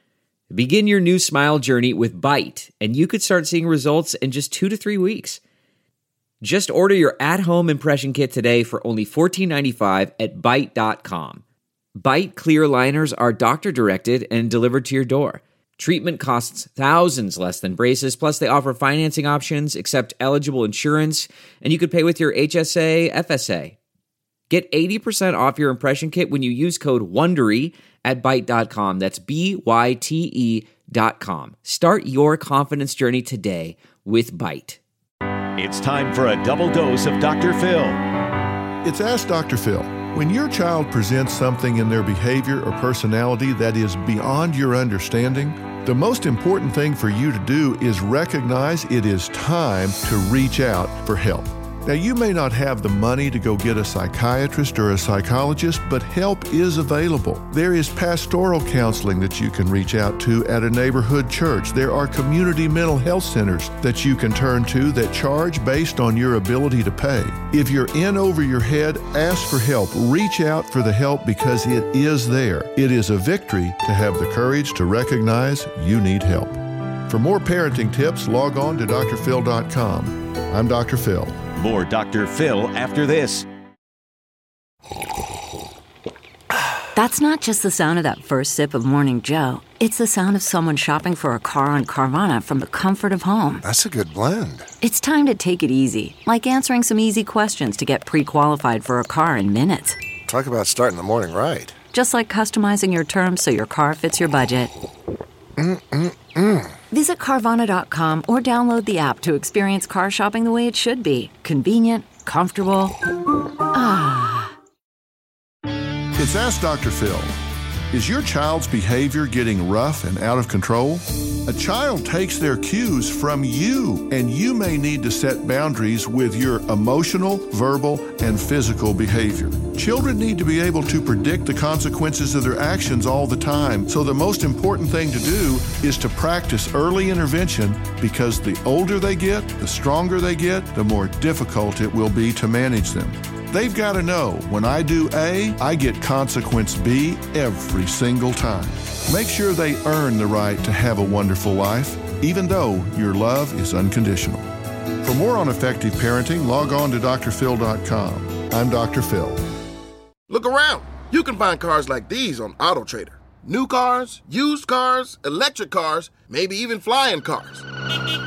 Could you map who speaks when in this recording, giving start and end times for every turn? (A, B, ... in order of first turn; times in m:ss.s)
0:00.5-0:05.4 A
0:06.4-0:11.4 A
0:12.0-0:23.8 A
0:24.5-0:34.8 A
0:35.6-0:38.0 B
0:38.8-1:21.4 C
1:21.6-1:23.4 B
1:27.0-1:33.6 D
1:33.7-1:34.6 E
1:34.8-1:40.0 D
1:40.3-1:41.7 E
1:41.9-1:44.7 D
1:45.6-1:46.7 E
1:46.9-1:53.0 D
1:53.7-1:54.6 D
1:56.2-1:57.3 C
1:57.9-2:34.5 C
2:35.0-2:39.4 C
2:40.3-2:47.6 F